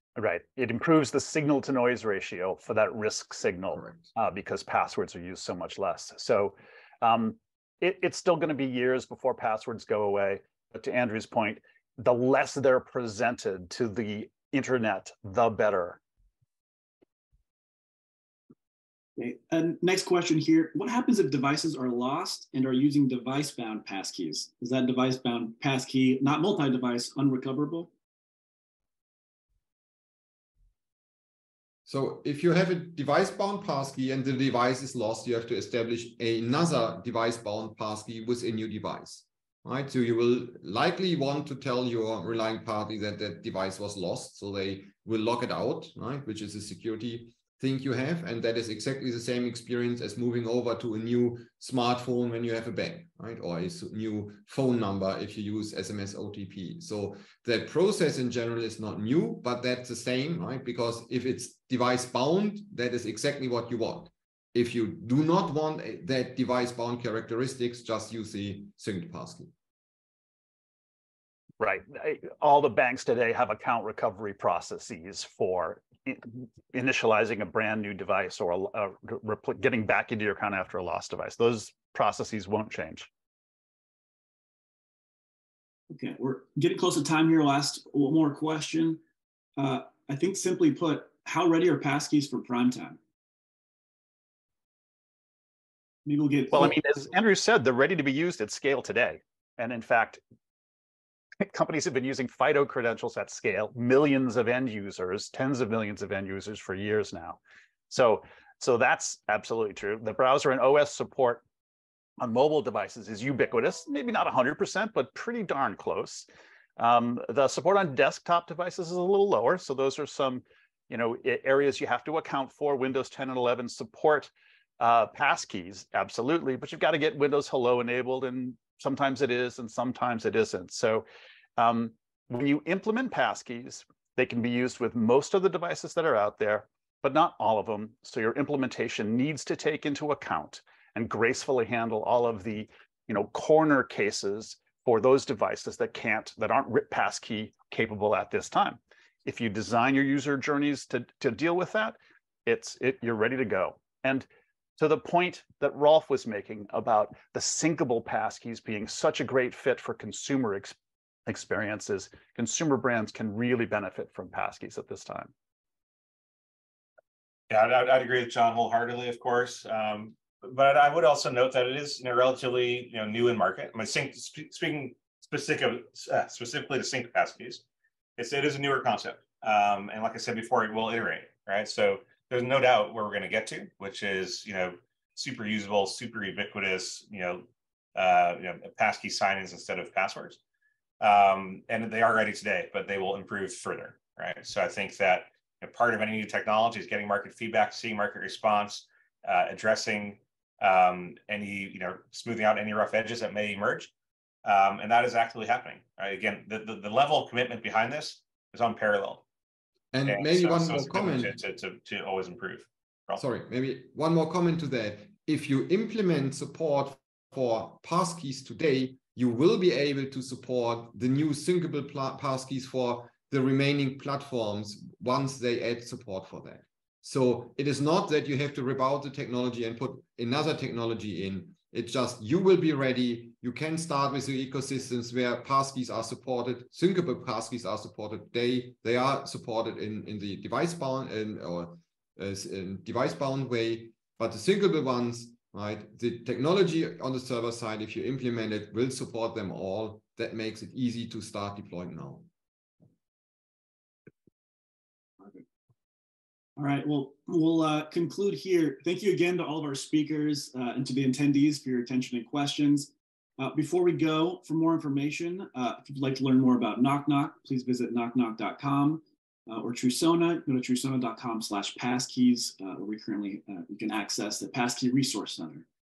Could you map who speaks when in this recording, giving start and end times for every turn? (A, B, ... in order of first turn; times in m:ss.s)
0:00.2-0:16.0 A
0:19.2-0:27.9 B
0:31.9-1:09.5 C
1:11.6-1:23.1 A
1:25.9-1:29.0 B
1:29.6-1:33.0 B
1:36.1-1:36.8 B
1:36.5-1:40.2 A
1:41.4-1:47.4 A
1:47.9-1:51.4 A
1:52.2-2:11.0 A
2:11.6-2:34.3 A
2:34.8-2:40.8 A
2:41.3-2:45.3 A
2:47.5-2:57.6 D
2:58.2-3:10.4 D
3:11.0-3:23.9 D
3:24.4-3:29.2 D
3:29.9-3:31.4 C
3:30.1-3:33.2 D
3:33.2-4:12.3 C
4:16.6-4:35.6 B